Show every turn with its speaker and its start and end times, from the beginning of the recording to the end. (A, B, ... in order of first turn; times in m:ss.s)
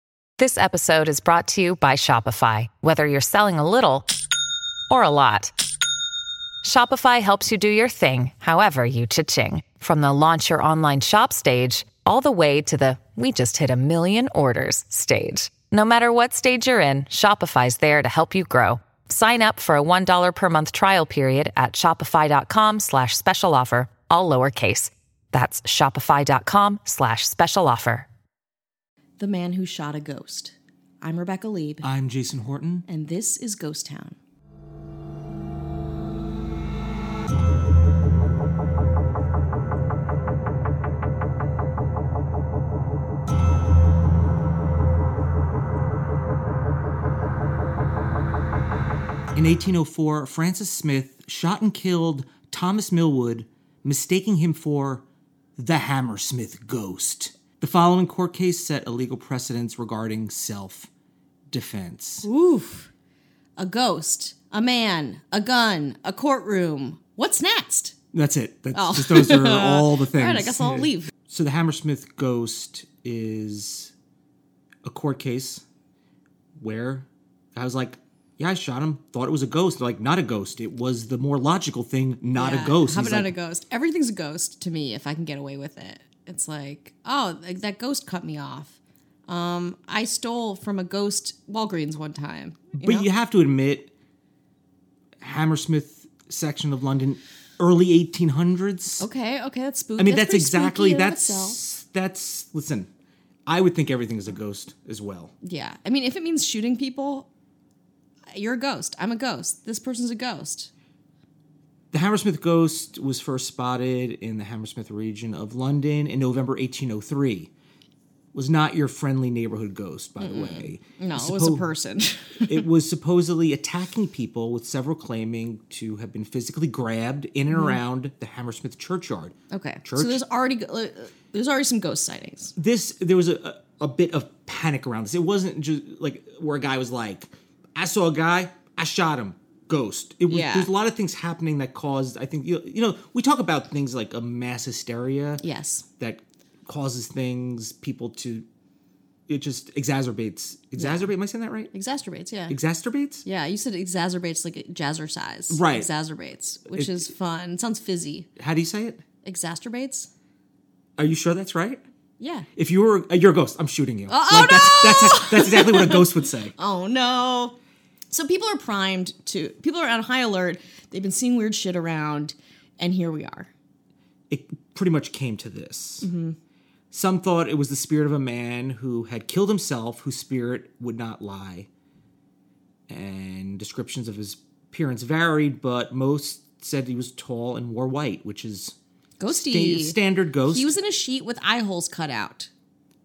0:00.4-0:04.1 A
0:04.9-0:05.5 A
0:06.6-0:28.1 A
0:29.2-0:31.9 B
0:31.8-0:32.8 C
0:32.9-0:34.2 B
0:49.3-0:55.0 C
0:55.6-1:00.9 C
1:01.5-1:02.3 C
1:02.2-1:02.9 B
1:03.6-1:08.0 B
1:08.1-1:13.9 C
1:08.7-1:11.1 B
1:14.8-1:15.6 C
1:16.6-1:23.3 C
1:22.4-1:33.1 B
1:32.8-1:33.9 C
1:35.2-1:39.1 C
1:39.0-1:41.6 B
1:40.0-1:42.9 C
1:43.5-1:45.3 C
1:45.4-1:47.3 B
1:48.3-1:50.7 B
1:51.9-1:57.5 C
1:58.3-2:01.7 C
2:00.2-2:02.6 B
2:02.4-2:10.2 C
2:07.5-2:07.8 B
2:09.5-2:12.5 B
2:12.6-2:25.4 C
2:20.3-2:20.7 B
2:25.4-2:25.9 B
2:26.0-2:28.5 C
2:29.3-2:31.7 C
2:30.8-2:31.1 B
2:31.7-2:32.6 B
2:32.5-2:33.2 C
2:33.2-2:38.3 B
2:35.5-2:35.9 C
2:36.7-2:37.0 C
2:38.4-2:39.0 C
2:39.2-2:40.1 B
2:41.0-2:41.8 C
2:42.2-2:42.5 B
2:42.6-2:46.5 C
2:44.1-2:47.6 B
2:48.1-2:53.5 B
2:54.3-2:56.1 C
2:56.0-2:56.4 B
2:56.9-3:01.7 C
3:02.9-3:08.8 C
3:09.2-3:12.5 B
3:09.3-3:10.7 C